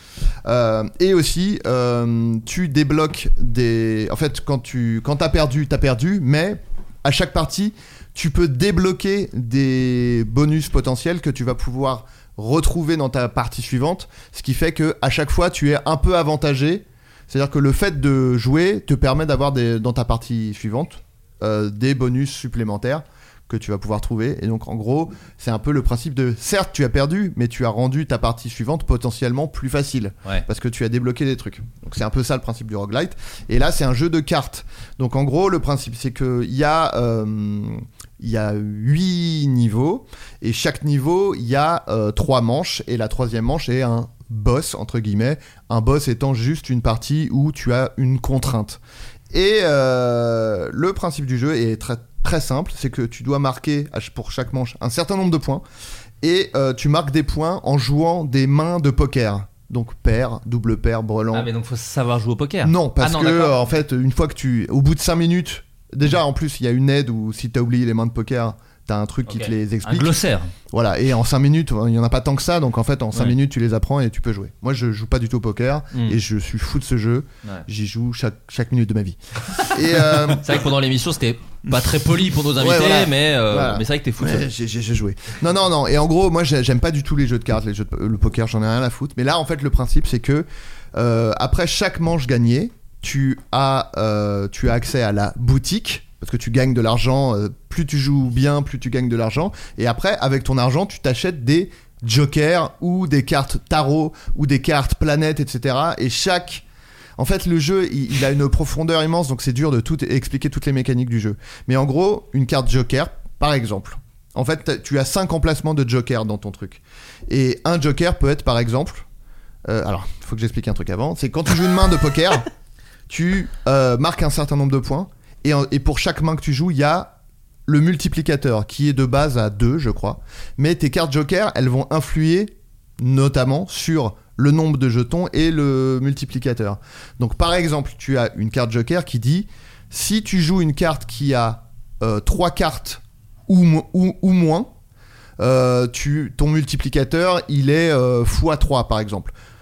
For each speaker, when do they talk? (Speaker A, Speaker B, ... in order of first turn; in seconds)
Speaker A: 0.5-48.8, 49.3-55.6, 56.2-61.5, 62.6-70.1, 70.7-80.5, 82.6-106.6, 107.2-119.0, 119.7-122.5, 123.1-127.1, 127.7-144.7, 145.4-149.3
Speaker B: 61.3-63.6, 69.3-70.5, 75.9-76.2, 80.3-84.5